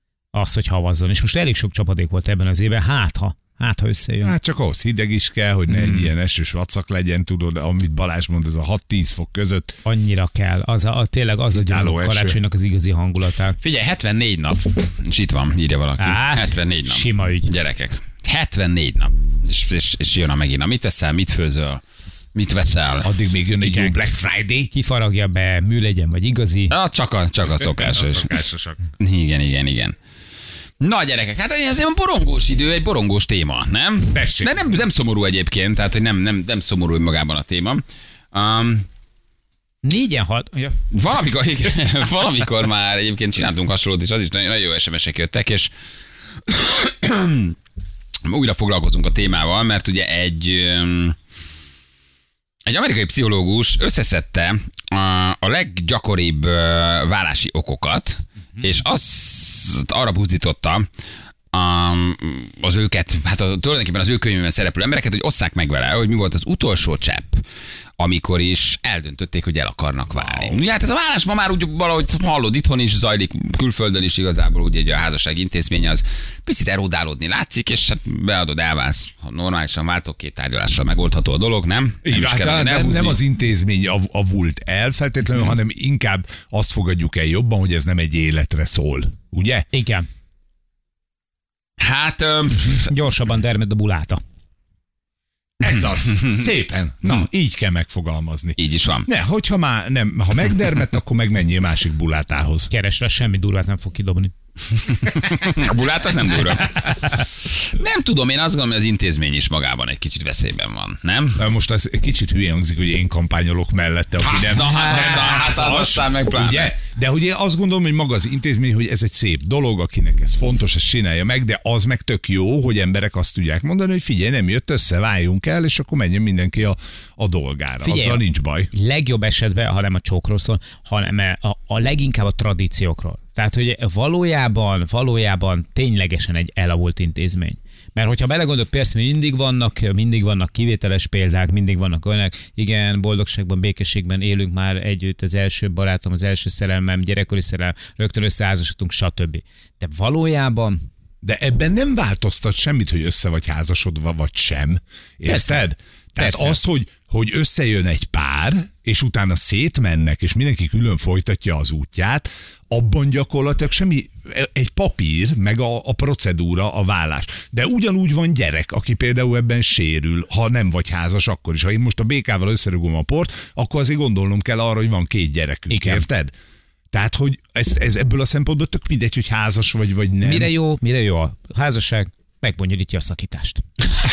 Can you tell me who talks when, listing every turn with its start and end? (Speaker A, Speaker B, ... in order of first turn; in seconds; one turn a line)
Speaker A: 0.3-4.3
Speaker B: 4.2-9.8
Speaker A: 5.7-6.1
Speaker A: 9.8-13.6
Speaker B: 11.5-12.4
Speaker C: 13.6-21.8
Speaker A: 16.0-17.5
Speaker C: 22.3-23.1
Speaker B: 23.0-24.7
Speaker A: 23.6-24.1
Speaker A: 24.7-26.7
Speaker C: 26.7-28.4
Speaker B: 27.4-28.8
Speaker C: 29.0-29.9
Speaker C: 30.8-38.9
Speaker B: 34.1-34.6
Speaker A: 39.8-40.8
Speaker C: 40.9-45.7
Speaker C: 46.5-47.5
Speaker C: 48.2-51.1
Speaker C: 52.6-60.9
Speaker C: 61.5-67.4
Speaker C: 68.0-83.2
Speaker B: 70.2-70.6
Speaker B: 82.0-89.7
Speaker A: 89.7-90.1
Speaker C: 91.8-92.9
Speaker A: 92.6-94.2
Speaker B: 95.6-102.7
Speaker C: 95.6-96.5
Speaker C: 98.6-99.1
Speaker A: 102.7-104.3
Speaker C: 104.8-111.4
Speaker B: 111.4-128.7
Speaker C: 114.2-116.7
Speaker A: 115.0-115.5
Speaker A: 127.8-150.8
Speaker B: 151.2-176.3
Speaker A: 155.2-155.6
Speaker A: 156.2-156.6
Speaker A: 175.7-176.0
Speaker B: 176.9-180.5
Speaker A: 180.2-183.6